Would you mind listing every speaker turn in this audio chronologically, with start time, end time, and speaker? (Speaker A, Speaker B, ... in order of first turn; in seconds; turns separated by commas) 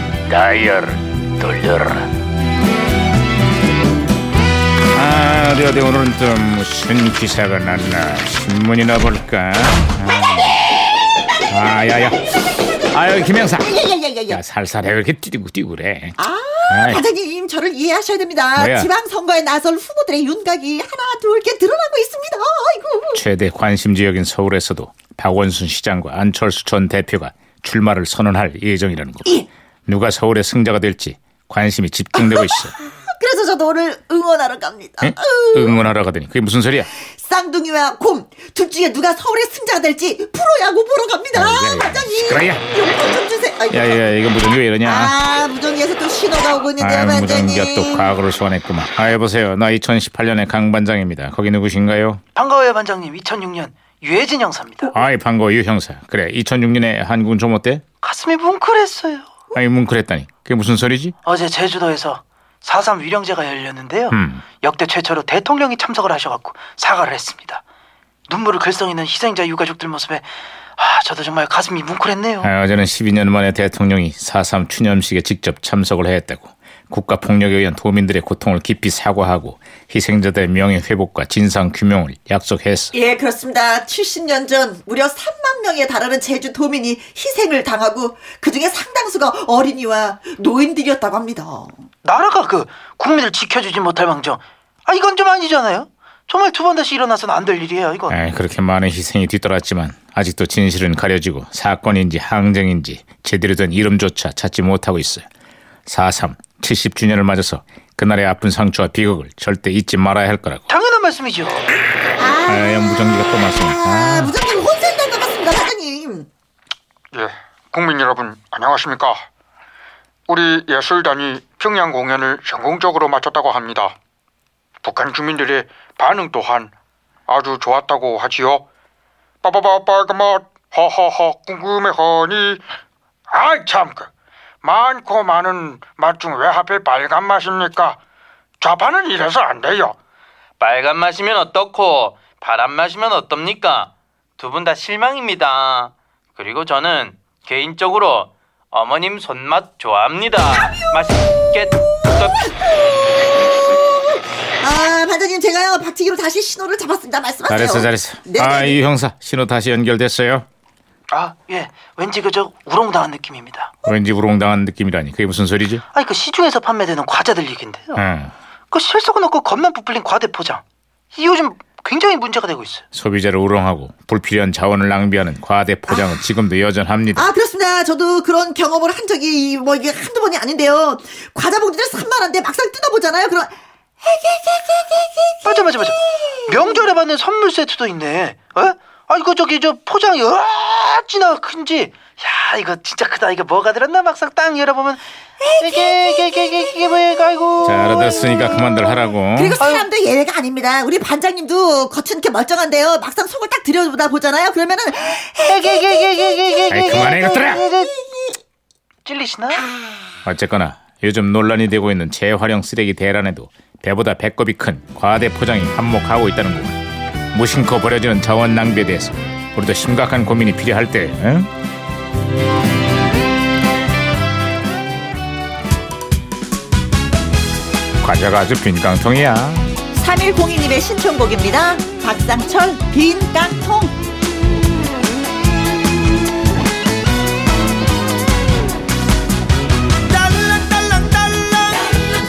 Speaker A: 0.3-2.1, Speaker A: 4.9-10.6, Speaker A: 11.5-13.7, Speaker B: 13.6-14.4, Speaker A: 14.3-16.2, Speaker B: 16.2-23.2, Speaker A: 16.7-17.0, Speaker A: 18.6-18.9, Speaker A: 23.1-32.7, Speaker B: 32.2-35.8, Speaker A: 35.0-36.9, Speaker B: 37.0-44.0, Speaker A: 41.3-42.6, Speaker A: 43.7-45.2, Speaker B: 44.8-48.1, Speaker A: 46.8-52.2, Speaker C: 52.4-54.9, Speaker A: 54.9-57.8, Speaker C: 58.0-59.3, Speaker A: 59.5-61.1, Speaker C: 61.2-67.6, Speaker A: 64.1-64.4, Speaker C: 68.3-70.3, Speaker C: 70.8-72.5, Speaker A: 72.4-82.9, Speaker B: 82.9-91.8, Speaker C: 92.0-98.2, Speaker A: 98.1-105.3, Speaker A: 105.9-110.7, Speaker C: 110.7-111.6, Speaker B: 112.2-112.8, Speaker A: 112.5-114.3, Speaker B: 113.8-116.3, Speaker D: 117.1-119.2, Speaker D: 120.3-123.9, Speaker D: 124.8-126.7, Speaker D: 127.3-128.7, Speaker D: 129.4-132.6, Speaker D: 133.3-134.1, Speaker D: 134.6-138.0, Speaker D: 138.6-140.0, Speaker E: 140.6-143.9, Speaker E: 144.4-151.6, Speaker B: 152.1-153.2, Speaker B: 154.6-158.8, Speaker A: 157.5-160.5, Speaker C: 161.1-163.7, Speaker A: 163.8-165.8, Speaker C: 165.9-168.0, Speaker A: 168.0-168.3, Speaker C: 168.7-170.6, Speaker C: 171.1-172.8, Speaker A: 172.9-177.3, Speaker B: 177.2-186.7, Speaker C: 185.4-195.0, Speaker B: 195.4-196.7, Speaker C: 195.6-198.3, Speaker A: 197.7-199.6, Speaker B: 198.3-208.4, Speaker C: 199.6-199.9, Speaker C: 205.4-207.9, Speaker A: 206.7-207.6, Speaker C: 209.1-209.7, Speaker B: 209.6-210.1, Speaker A: 210.3-216.8, Speaker A: 217.3-221.5, Speaker A: 228.0-229.7, Speaker B: 229.9-233.9, Speaker C: 240.1-241.9